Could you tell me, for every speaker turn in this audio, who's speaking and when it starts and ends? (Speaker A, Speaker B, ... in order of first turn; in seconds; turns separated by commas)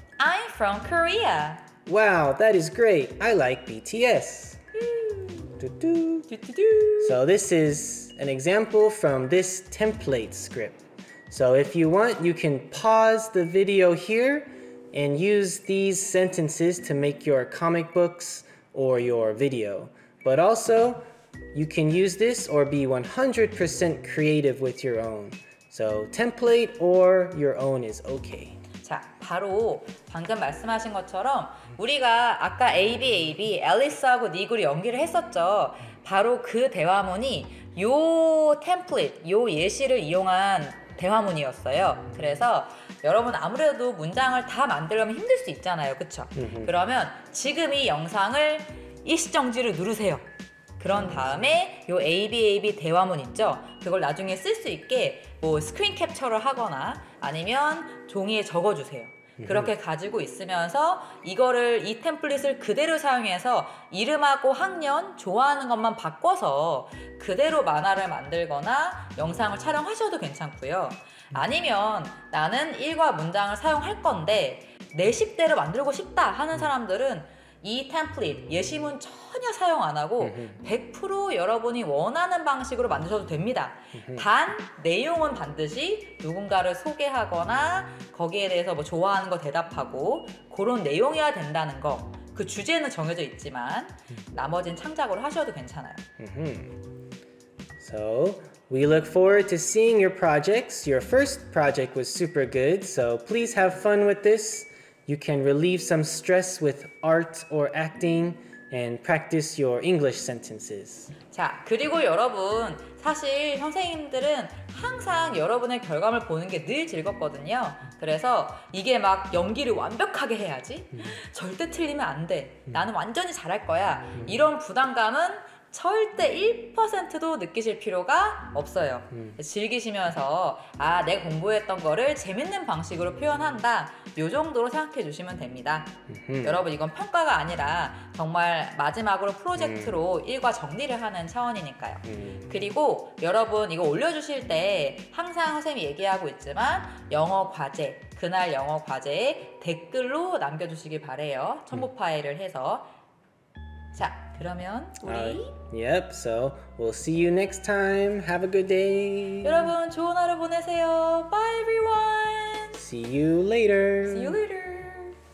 Speaker A: 0.2-1.6, Speaker B: 1.9-4.6, Speaker A: 4.8-5.5, Speaker B: 5.6-6.3, Speaker A: 6.3-7.2, Speaker B: 7.0-28.6, Speaker A: 28.8-50.2, Speaker B: 46.4-46.7, Speaker A: 50.8-96.0, Speaker B: 59.4-59.7, Speaker B: 80.2-80.6, Speaker B: 84.0-84.2, Speaker B: 96.2-96.8, Speaker B: 97.8-111.1, Speaker A: 111.3-152.9, Speaker B: 136.1-136.6, Speaker B: 139.6-140.0, Speaker B: 142.1-142.5, Speaker A: 153.9-155.6, Speaker B: 155.0-159.7, Speaker A: 159.4-162.8, Speaker B: 162.7-164.4, Speaker A: 164.1-165.2